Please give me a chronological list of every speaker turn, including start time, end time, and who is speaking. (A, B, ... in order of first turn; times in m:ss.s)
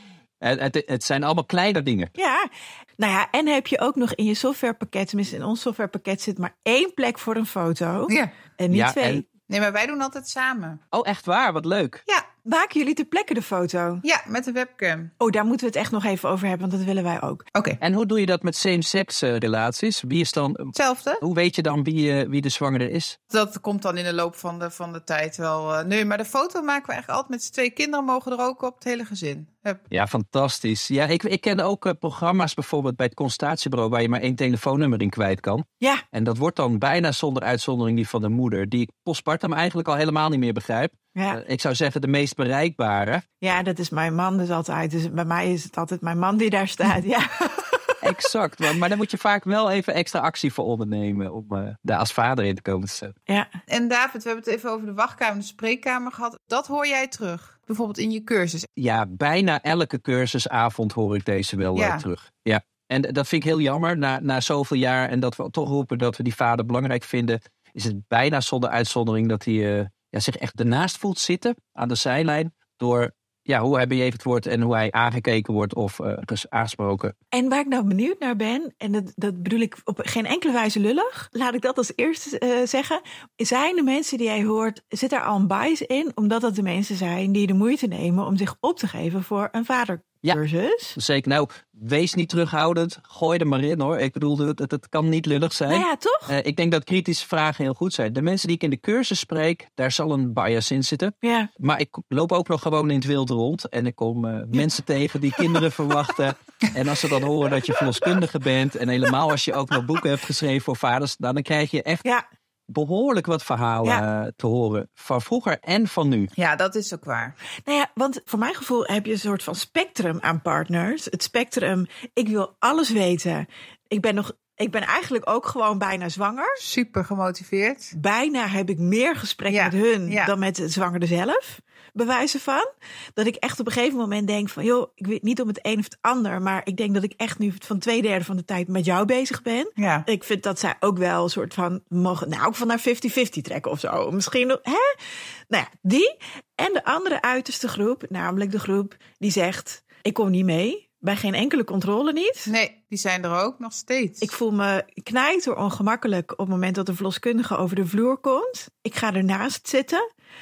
0:00.4-0:02.1 A
0:02.2-0:09.2 B
0:08.1-0:08.3 C
0:08.7-0:09.2 A
0:09.5-0:10.8 C
0:10.9-0:12.0 A
0:12.4-0:14.0 B
0:14.0-0:15.1 C
0:15.2-0:17.4 B
0:17.6-0:17.8 C
0:17.8-0:23.2 A
0:20.8-0:21.2 C
0:23.3-0:29.8 C
0:29.9-0:43.2 A
0:43.4-0:47.9 B
0:48.0-0:53.2 A
0:53.7-0:58.7 C
0:58.8-1:17.2 A
1:01.8-1:02.0 C
1:17.3-1:31.0 B
1:31.0-1:52.0 A
1:35.7-1:36.3 B
1:41.2-1:41.5 B
1:52.7-1:56.3 A
1:56.4-1:57.4 C
1:57.6-2:06.6 B
2:06.6-2:07.9 C
2:07.9-2:24.9 B
2:09.5-2:10.3 C
2:19.8-2:20.1 C
2:25.5-2:32.5 B
2:32.5-2:34.3 C
2:34.2-2:40.0 B